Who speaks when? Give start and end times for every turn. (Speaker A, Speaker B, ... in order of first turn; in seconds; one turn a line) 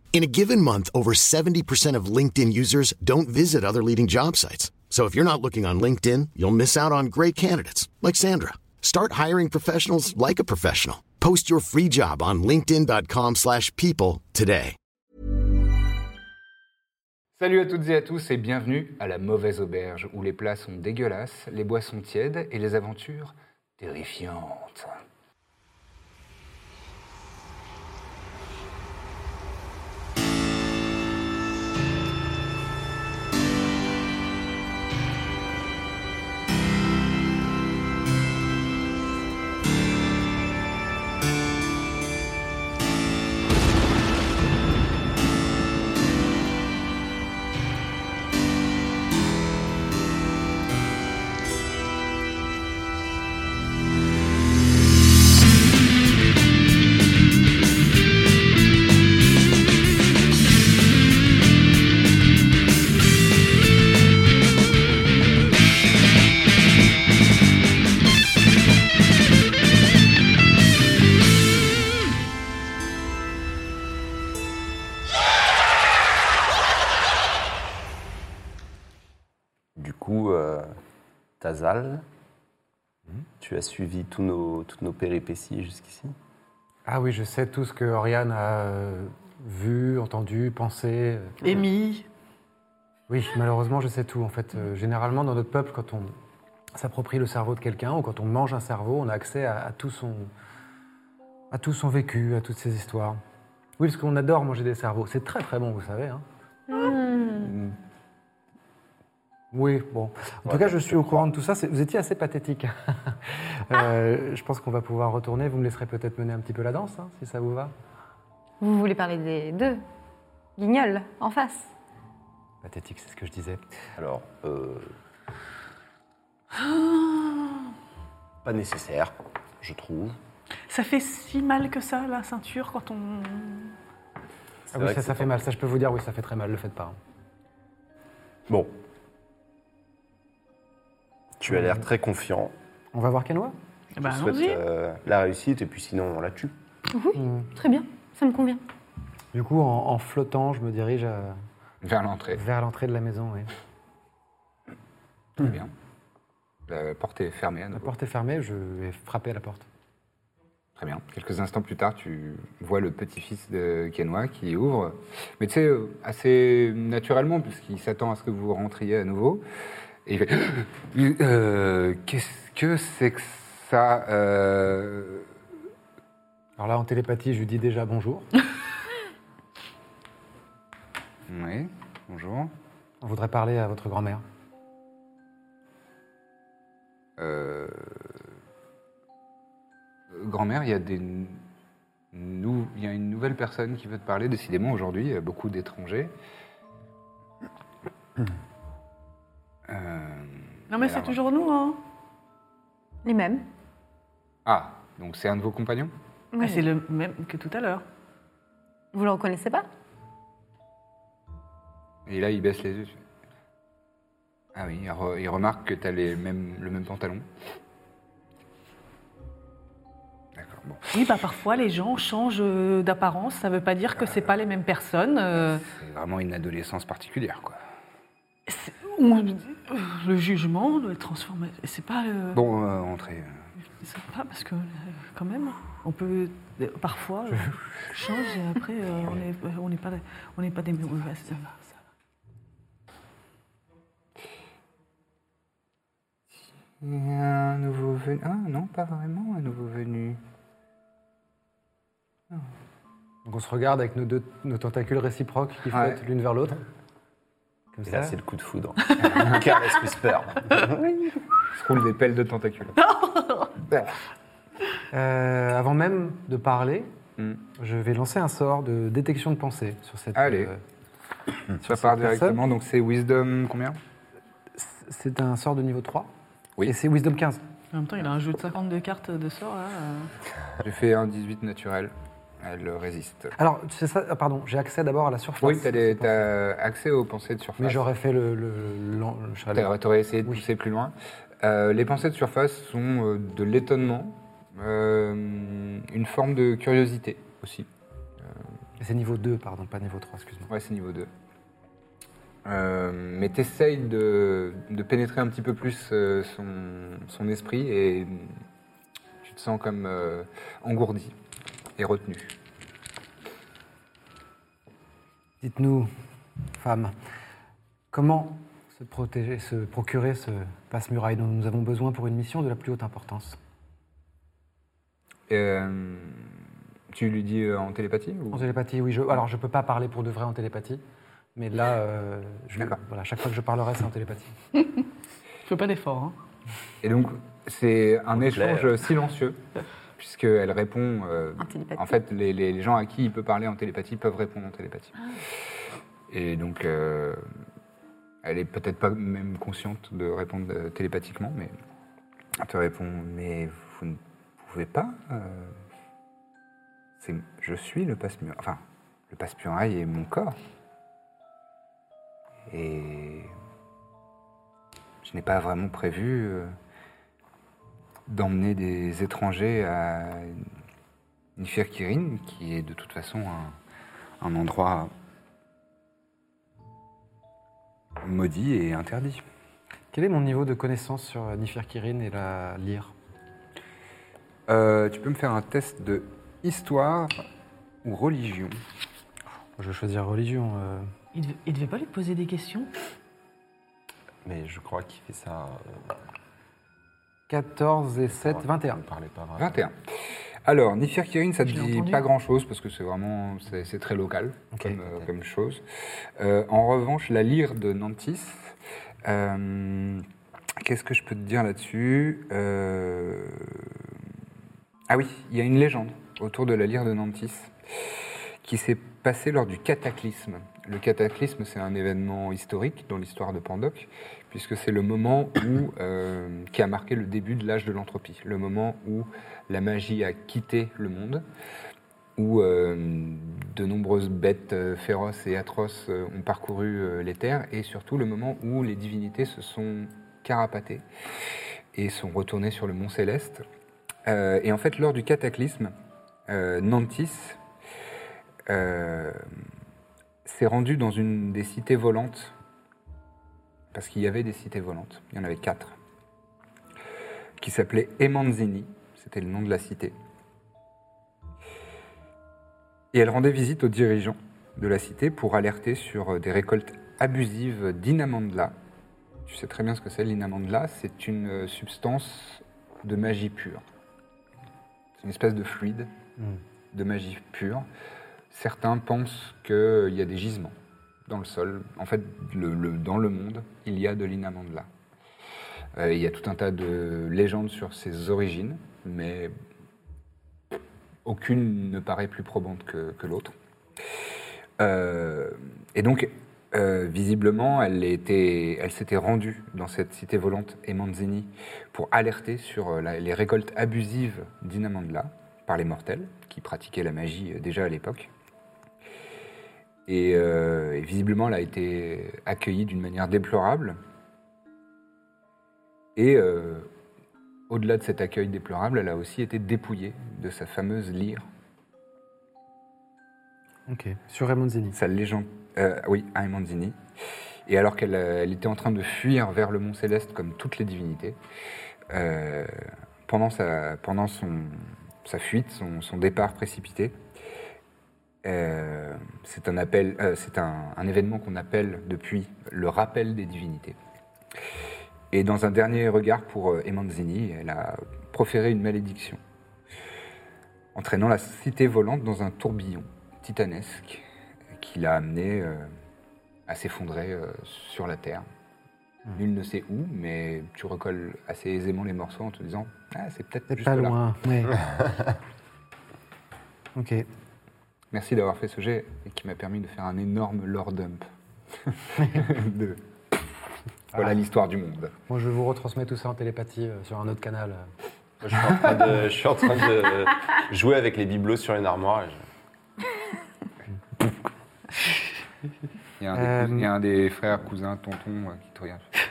Speaker A: 0.1-14.8
Speaker B: 17.4-25.0
Speaker C: 79.8-80.7
Speaker C: 81.4-82.0
Speaker C: 83.4-86.2
Speaker D: 86.9-91.4
Speaker E: 91.4-92.1
Speaker D: 93.1-96.2
Speaker D: 96.8-100.3
Speaker D: 101.5-103.2
Speaker D: 103.8-106.2
Speaker F: 106.7-107.6
Speaker D: 109.5-117.7
Speaker C: 110.5-111.2
Speaker F: 118.6-119.8
Speaker F: 120.6-121.7
Speaker D: 122.6-123.6
Speaker C: 124.0-124.9
Speaker E: 126.6-127.6
Speaker C: 128.4-130.2
Speaker E: 130.7-133.7
Speaker C: 134.7-135.3
Speaker D: 134.7-137.0
Speaker C: 138.5-138.7
Speaker C: 141.4-142.5
Speaker D: 141.5-141.8
Speaker D: 142.9-143.6
Speaker E: 143.9-144.6
Speaker C: 144.0-146.5
Speaker F: 146.9-148.6
Speaker D: 147.2-147.5
Speaker D: 149.3-151.4
Speaker B: 151.8-152.4
Speaker D: 152.3-153.5
Speaker B: 155.4-155.7
Speaker B: 156.7-157.9
Speaker D: 157.7-159.7
Speaker B: 160.8-169.4
Speaker B: 170.1-175.3
Speaker D: 176.6-178.3
Speaker B: 181.3-182.5
Speaker D: 183.0-184.2
Speaker B: 187.2-188.1
Speaker B: 190.1-191.4
Speaker B: 192.1-196.2
Speaker B: 199.7-201.2
Speaker E: 200.7-201.8
Speaker F: 203.1-203.4
Speaker B: 204.4-205.9
Speaker F: 206.3-206.7
Speaker E: 206.4-207.8
Speaker F: 208.9-209.7
Speaker B: 212.1-213.0
Speaker B: 214.6-217.3
Speaker B: 220.3-221.0
Speaker E: 220.9-225.6
Speaker B: 224.0-224.3
Speaker B: 225.3-227.6
Speaker E: 228.5-232.4
Speaker B: 232.3-233.4
Speaker E: 233.8-241.6
Speaker B: 246.8-250.2
Speaker D: 253.2-256.6
Speaker B: 255.7-256.0
Speaker D: 257.8-258.2
Speaker C: 257.9-260.9
Speaker B: 261.5-262.8
Speaker E: 262.9-263.5
Speaker B: 263.6-264.0
Speaker D: 264.9-266.9
Speaker D: 267.6-270.6
Speaker B: 270.1-270.5
Speaker D: 271.6-272.4
Speaker B: 271.6-273.8
Speaker D: 274.6-276.1
Speaker D: 276.7-277.4
Speaker E: 277.7-280.1
Speaker B: 280.6-283.3
Speaker D: 283.4-286.3
Speaker B: 285.4-287.8
Speaker D: 287.6-289.7
Speaker B: 289.5-297.7
Speaker D: 298.8-300.5
Speaker B: 300.5-301.1
Speaker B: 302.4-308.3
Speaker B: 309.2-311.2
Speaker B: 311.8-312.4
Speaker D: 315.4-315.9
Speaker D: 316.6-316.9
Speaker D: 317.9-323.4
Speaker B: 325.3-326.3
Speaker B: 326.9-328.5
Speaker D: 328.3-330.8
Speaker D: 331.4-334.4
Speaker E: 335.4-336.2
Speaker B: 336.8-339.4
Speaker C: 338.2-338.7
Speaker B: 340.0-344.9
Speaker F: 341.4-341.9
Speaker B: 346.1-347.2
Speaker B: 348.2-351.5
Speaker B: 352.4-355.6
Speaker B: 357.0-360.4
Speaker B: 362.5-363.3
Speaker B: 365.0-366.5
Speaker B: 368.1-370.4
Speaker B: 371.4-373.6
Speaker B: 374.2-374.9
Speaker B: 378.0-379.2
Speaker D: 379.9-382.9
Speaker B: 384.5-387.1
Speaker B: 387.8-388.6
Speaker D: 389.6-390.9
Speaker E: 391.1-392.7
Speaker C: 394.2-395.9
Speaker D: 397.3-398.8
Speaker C: 398.1-399.6
Speaker B: 399.4-399.8
Speaker B: 400.4-405.6
Speaker E: 401.4-402.0
Speaker C: 404.7-405.1
Speaker B: 406.2-410.1
Speaker B: 410.6-413.9
Speaker B: 414.9-417.5
Speaker B: 418.4-431.3
Speaker B: 432.2-440.9
Speaker B: 441.7-443.4
Speaker B: 444.1-445.7
Speaker B: 446.3-447.4
Speaker B: 448.5-449.2
Speaker B: 450.2-452.4
Speaker B: 453.7-455.8
Speaker B: 457.4-459.9
Speaker B: 462.9-468.6
Speaker B: 469.3-473.6
Speaker B: 475.0-475.9
Speaker B: 476.7-477.7
Speaker B: 478.3-484.7
Speaker B: 485.8-489.3
Speaker B: 491.0-493.4
Speaker B: 494.6-508.1
Speaker B: 509.9-513.8
Speaker B: 516.0-516.7
Speaker B: 517.5-521.3
Speaker D: 523.7-524.8
Speaker B: 524.7-526.8
Speaker B: 527.5-531.2
Speaker B: 531.9-537.0
Speaker B: 538.2-543.8
Speaker B: 545.1-549.2
Speaker B: 550.8-555.7
Speaker B: 556.5-558.3
Speaker B: 559.1-564.0
Speaker D: 563.5-564.6
Speaker D: 566.8-567.1
Speaker B: 567.9-571.1
Speaker B: 571.6-572.8
Speaker B: 573.9-574.9
Speaker D: 575.1-577.7
Speaker C: 578.2-582.2
Speaker B: 586.0-588.9
Speaker D: 586.1-586.7